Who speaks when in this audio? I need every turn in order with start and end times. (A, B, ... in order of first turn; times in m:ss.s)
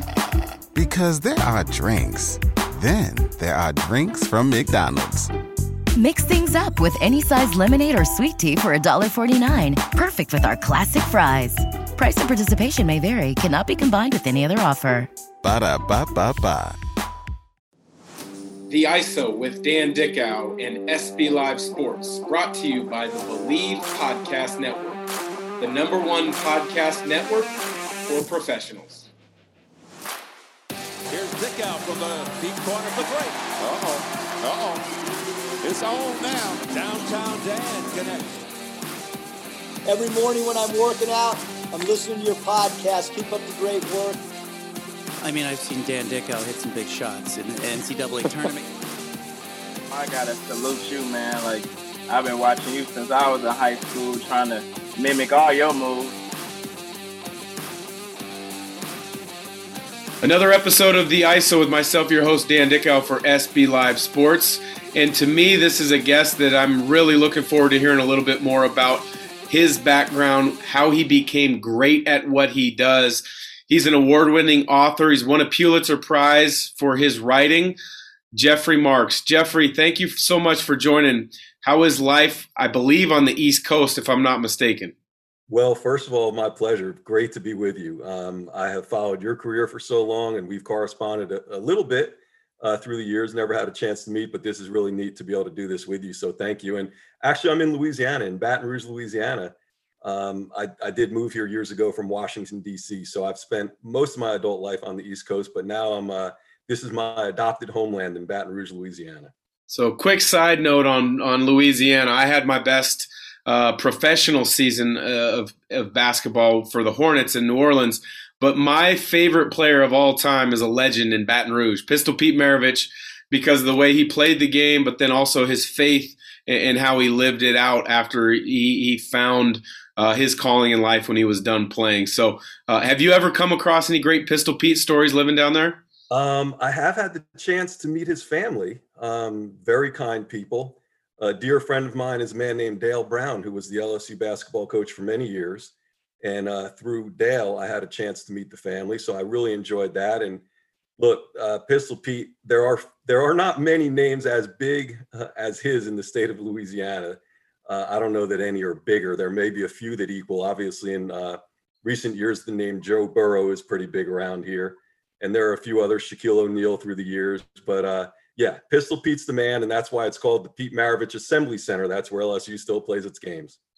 0:00.7-0:05.3 A
0:06.0-0:15.1 B
0:15.4-0:16.8 A
0:18.7-0:25.0 C
0:25.6-0:27.5 C
0:28.1-0:29.1 C
0:31.1-0:34.8 D
0:35.6-0:38.3 D
0:39.9-0:44.2 E
0:45.2-0:48.7 F
0:49.9-0:56.2 G
1:00.2-1:17.8 C
1:18.3-1:24.9 C
1:25.5-1:49.3 H
1:49.7-2:15.8 C
2:16.1-2:30.4 H
2:31.0-2:53.6 H